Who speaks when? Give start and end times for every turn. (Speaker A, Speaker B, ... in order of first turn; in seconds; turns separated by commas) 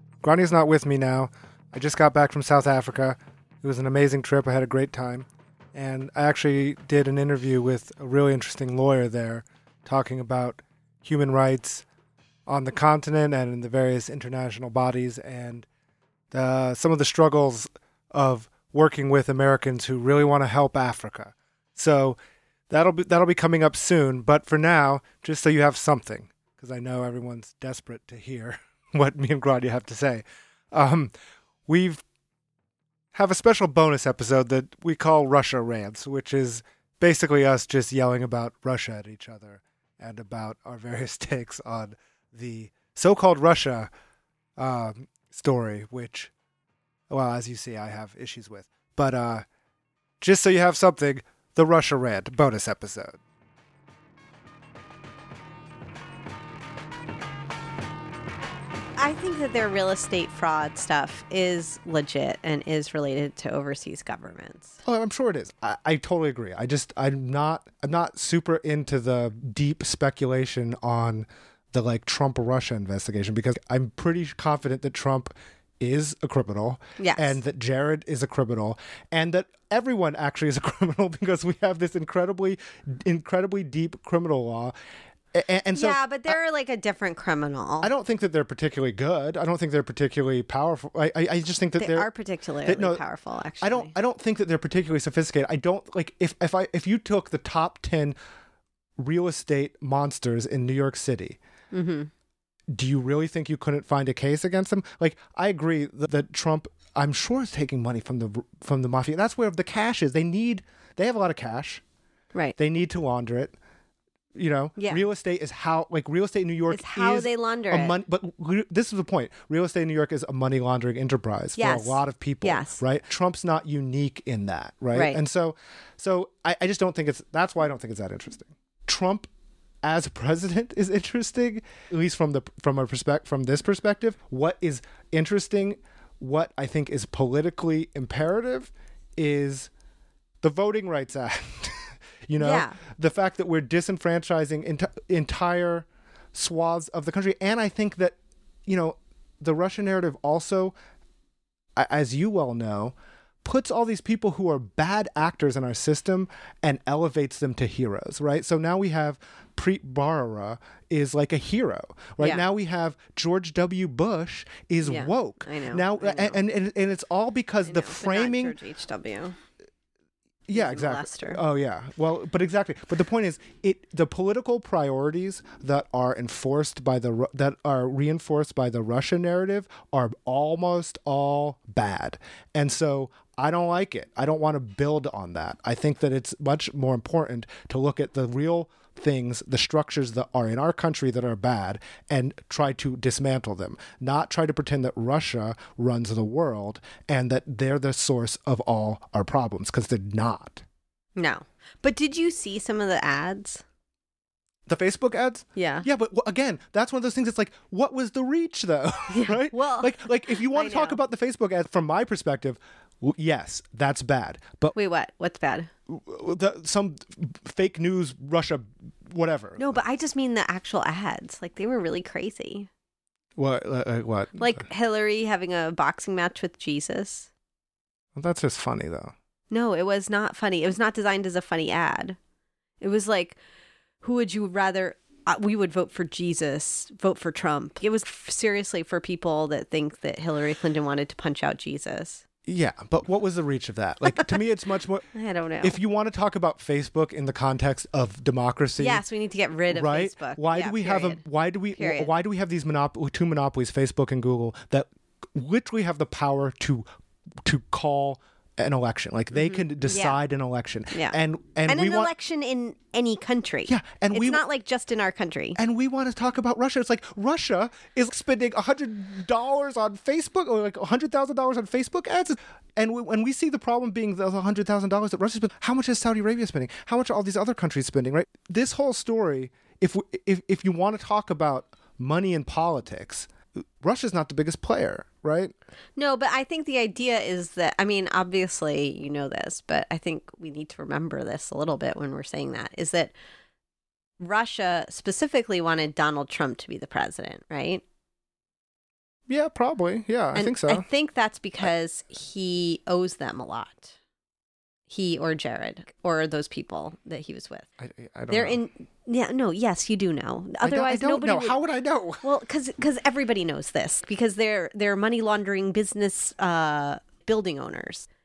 Speaker A: 0.2-11.8, Speaker A: 12.5-15.7, Speaker A: 16.3-22.2, Speaker A: 22.7-31.1, Speaker A: 31.7-32.0, Speaker A: 33.1-43.9, Speaker A: 44.6-46.3, Speaker A: 47.1-49.4, Speaker A: 50.2-53.2, Speaker B: 59.0-64.8, Speaker A: 64.8-84.7, Speaker B: 77.0-77.4, Speaker A: 85.3-86.4, Speaker B: 85.7-87.9, Speaker A: 87.8-92.1, Speaker B: 91.8-93.9, Speaker A: 92.6-93.0, Speaker A: 93.6-98.2, Speaker A: 99.0-101.4, Speaker B: 101.7-102.1, Speaker A: 102.7-111.8, Speaker A: 112.6-113.5, Speaker A: 114.3-129.3, Speaker B: 114.8-115.0, Speaker B: 116.7-118.0, Speaker B: 121.6-122.8, Speaker B: 124.9-125.2, Speaker A: 129.8-139.7, Speaker A: 140.4-150.7, Speaker B: 142.4-142.8, Speaker A: 151.8-168.5, Speaker B: 164.8-166.4, Speaker B: 167.7-169.3, Speaker A: 170.5-200.6, Speaker B: 170.5-171.4, Speaker B: 201.2-203.6, Speaker A: 204.7-214.7, Speaker B: 205.5-205.9, Speaker B: 209.1-211.0, Speaker B: 214.7-215.7, Speaker A: 215.9-219.8, Speaker B: 219.6-222.7, Speaker A: 223.4-224.7, Speaker B: 224.3-227.3, Speaker A: 228.1-229.1, Speaker B: 229.5-232.2, Speaker B: 232.8-233.4, Speaker B: 234.0-242.2, Speaker A: 242.4-245.0, Speaker B: 245.1-245.8, Speaker A: 245.6-249.0, Speaker B: 248.8-251.2, Speaker A: 249.7-256.9, Speaker B: 251.7-252.1, Speaker A: 257.4-262.1, Speaker B: 259.3-260.2, Speaker B: 260.9-265.6, Speaker A: 263.7-264.4, Speaker A: 265.6-283.3, Speaker A: 283.8-285.5, Speaker B: 285.9-293.1, Speaker B: 294.2-297.8, Speaker A: 299.3-300.9, Speaker B: 300.3-303.9, Speaker B: 304.9-307.7, Speaker A: 307.8-308.6, Speaker B: 308.3-311.6, Speaker A: 310.6-312.2, Speaker B: 312.2-318.1